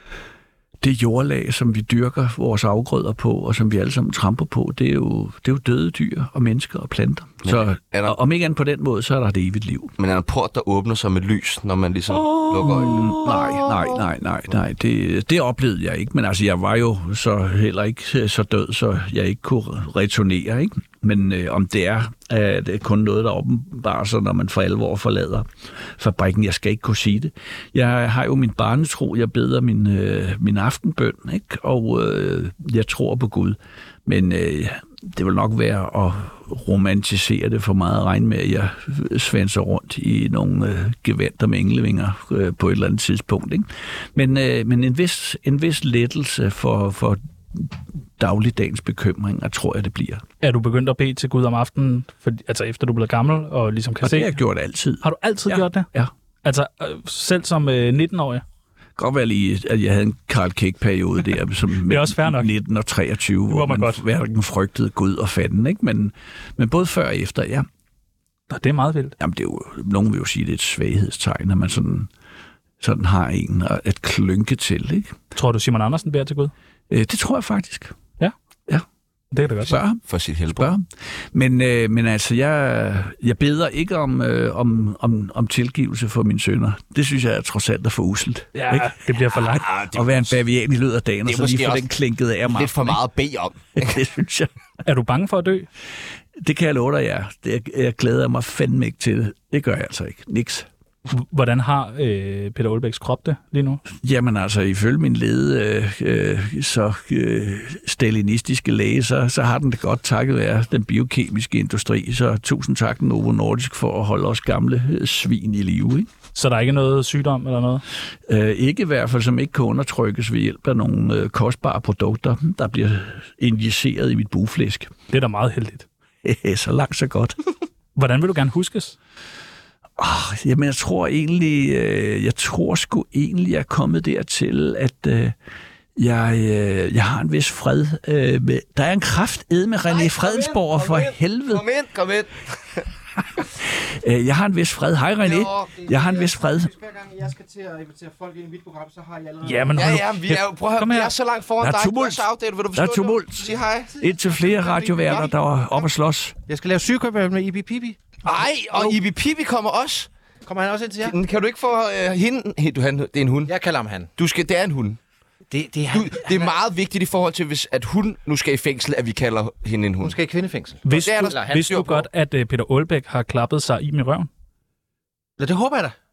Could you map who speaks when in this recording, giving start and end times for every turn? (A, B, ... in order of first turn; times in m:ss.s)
0:00.8-0:09.9 A
0:07.4-0:08.2 B
0:10.0-0:13.5 B
0:12.6-0:50.2 A
0:50.4-0:54.3 C
0:54.0-0:56.1 A
0:55.0-0:55.9 C
0:56.4-0:58.4 C
0:59.0-1:07.7 A
1:01.9-1:02.5 C
1:03.5-1:04.0 C
1:08.5-1:09.1 C
1:09.2-1:12.1 A
1:12.8-1:15.1 A
1:15.3-1:16.5 C
1:16.9-1:17.9 A
1:19.3-1:19.8 C
1:19.6-1:28.9 A
1:20.1-1:20.7 B
1:28.5-1:29.7 C
1:29.5-1:30.3 B
1:29.9-1:33.0 A
1:31.2-1:31.9 B
1:32.5-1:34.0 B
1:33.8-1:34.5 A
1:34.8-1:35.7 C
1:36.4-1:40.7 A
1:41.1-1:43.8 C
1:43.9-1:56.1 A
1:56.3-1:57.8 C
1:58.3-2:04.9 A
2:05.1-2:05.8 C
2:06.2-2:07.4 A
2:08.0-2:09.0 C
2:10.0-2:15.4 A
2:16.0-2:21.6 A
2:19.9-2:22.9 B
2:23.8-2:26.7 A
2:25.2-2:25.7 B
2:25.7-2:29.9 D
2:29.4-2:31.1 C
2:29.7-2:33.9 B
2:31.6-2:36.4 A
2:33.4-2:34.2 D
2:34.5-2:35.3 B
2:36.5-2:39.0 D
2:38.2-2:40.1 B
2:40.4-2:41.2 D
2:41.0-2:43.5 B
2:43.4-2:44.1 D
2:44.2-2:45.0 B
2:45.5-2:46.5 D
2:45.9-2:50.2 B
2:50.0-2:51.6 D
2:50.8-2:54.3 C
2:50.9-2:52.1 B
2:55.4-2:56.0 D